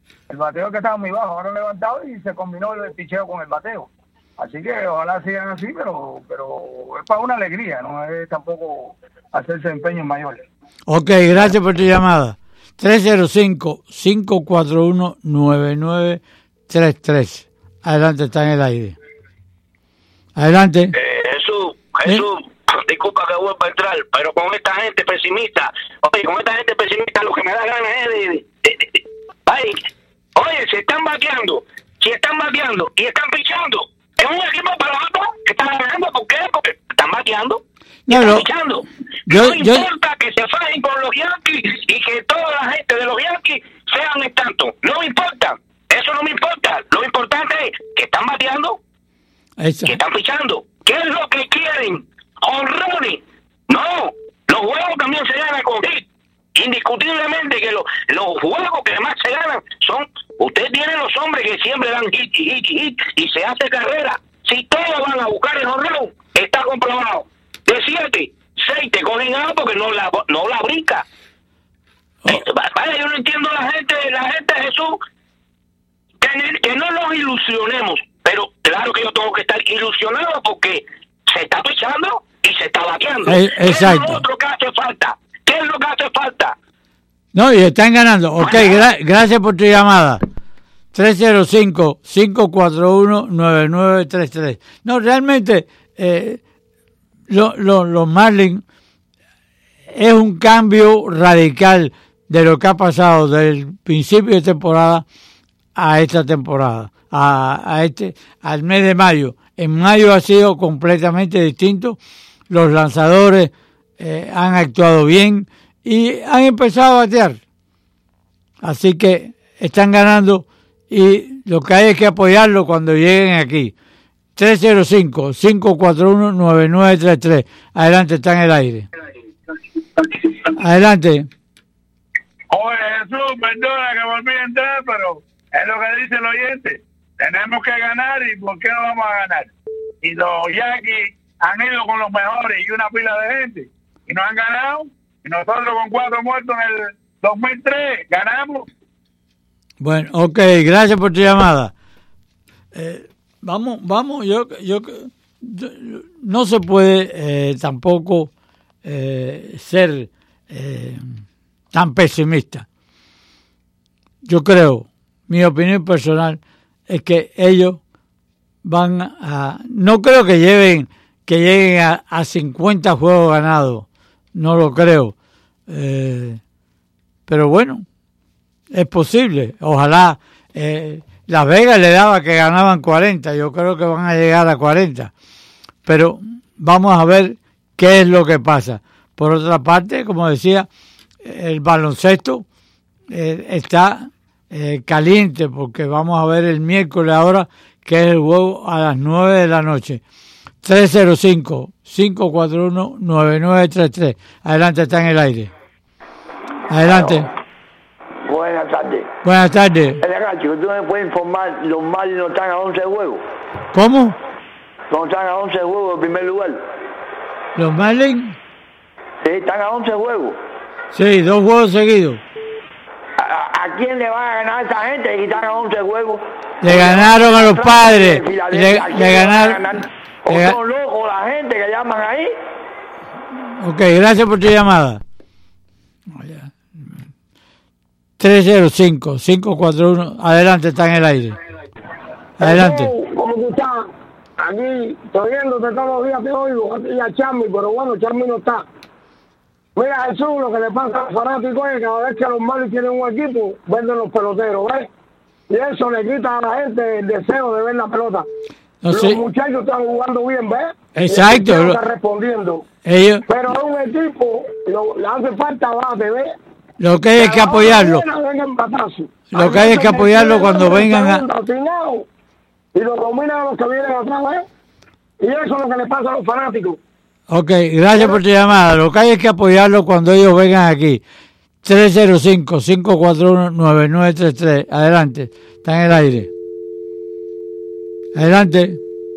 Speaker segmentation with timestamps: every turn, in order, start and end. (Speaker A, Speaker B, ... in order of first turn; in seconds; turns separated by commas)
Speaker A: 0.3-10.4, Speaker B: 10.9-18.9, Speaker B: 20.4-21.0, Speaker C: 20.9-29.8, Speaker C: 30.4-48.8, Speaker B: 38.1-38.5, Speaker B: 39.3-39.9, Speaker B: 49.6-50.0, Speaker C: 49.9-71.0, Speaker C: 72.3-75.0, Speaker C: 76.2-86.5, Speaker B: 83.3-84.2, Speaker B: 87.3-90.2, Speaker C: 88.4-88.8, Speaker B: 90.9-96.4, Speaker B: 97.3-98.6, Speaker B: 99.9-105.0, Speaker B: 105.8-112.0, Speaker B: 112.5-117.4, Speaker B: 118.6-123.7, Speaker B: 124.4-128.9, Speaker B: 130.6-131.3, Speaker A: 132.5-139.5, Speaker A: 140.0-148.7, Speaker B: 149.8-151.7, Speaker B: 152.7-158.3, Speaker B: 158.8-161.2, Speaker B: 161.7-162.7, Speaker B: 164.2-167.8, Speaker B: 168.6-175.2, Speaker B: 175.7-176.4, Speaker B: 177.3-177.8, Speaker B: 178.7-185.1, Speaker B: 185.9-190.7, Speaker B: 191.2-192.4, Speaker B: 193.1-200.0, Speaker B: 200.6-205.5, Speaker B: 206.7-207.3, Speaker D: 206.9-207.2, Speaker D: 208.3-209.1, Speaker B: 209.2-210.0, Speaker D: 210.0-213.2, Speaker B: 213.7-214.2, Speaker D: 214.9-216.6, Speaker B: 217.6-218.4, Speaker D: 219.2-220.4, Speaker B: 220.9-222.2, Speaker D: 223.2-232.3, Speaker B: 226.6-229.6, Speaker B: 230.3-230.6, Speaker B: 233.6-235.0, Speaker B: 236.1-236.5, Speaker B: 238.2-241.4, Speaker B: 242.4-242.9, Speaker E: 242.4-243.8, Speaker E: 244.4-248.7, Speaker E: 249.8-254.9, Speaker E: 255.5-258.3, Speaker B: 258.8-259.2, Speaker E: 258.9-262.6, Speaker B: 260.9-261.8, Speaker B: 262.9-263.3, Speaker E: 263.3-266.4, Speaker B: 266.8-268.1, Speaker E: 267.1-272.1, Speaker B: 269.3-271.2, Speaker E: 272.7-274.5, Speaker E: 275.2-276.8, Speaker B: 277.3-281.0, Speaker B: 281.6-286.3, Speaker B: 288.1-288.8